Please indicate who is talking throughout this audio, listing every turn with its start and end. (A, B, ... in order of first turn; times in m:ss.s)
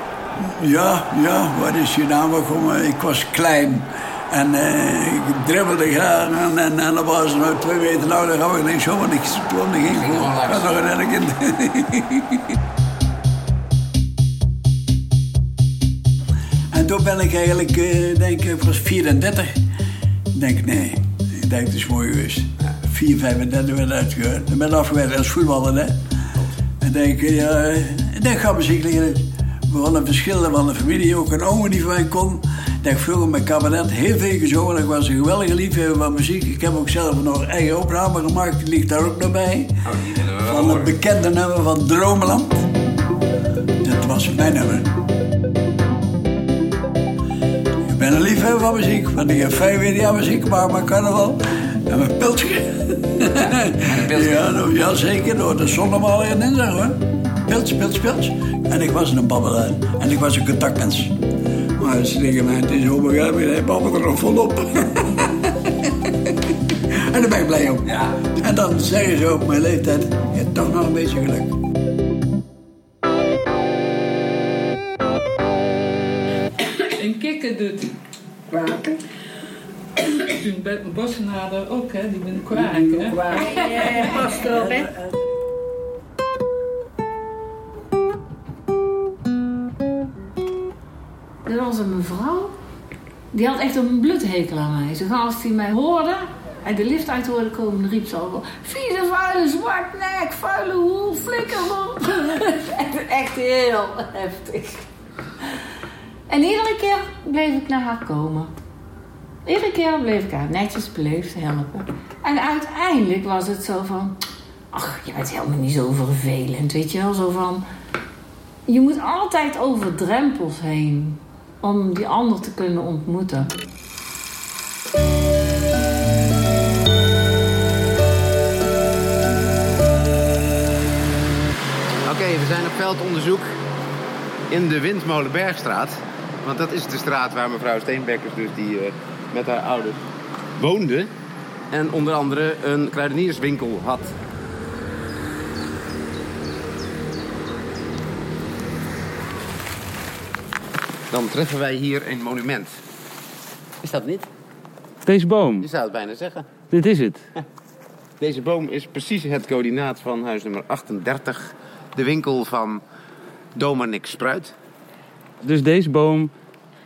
0:00.6-0:12.4 A
0:09.9-0:10.7 B
0:16.7-0:19.5 A
0:20.4-0:26.0 A
0:26.8-0:39.8 A
0:39.8-0:40.9 B
0:40.4-0:42.6 A
0:43.8-0:44.9 A
0:47.9-1:01.1 A
0:53.9-0:54.5 B
1:01.8-1:05.3 A
1:05.9-1:06.3 A
1:07.0-1:11.5 A
1:17.0-1:17.9 C
1:18.5-1:19.0 D
1:20.4-1:23.2 C
1:22.6-1:25.1 D
1:31.4-1:32.5 E
1:33.3-1:44.9 E
1:46.3-1:48.5 E
1:49.4-1:54.2 E
1:54.7-1:57.6 E
1:58.7-2:03.5 E
2:12.1-2:13.5 B
2:14.5-2:20.0 B
2:20.6-2:21.1 B
2:21.7-2:24.1 B
2:31.1-2:32.8 B
2:33.8-2:34.2 B
2:35.0-2:35.7 F
2:35.6-2:36.5 B
2:36.7-2:37.2 F
2:38.2-2:42.8 B
2:43.6-2:44.5 B
2:45.4-2:46.3 F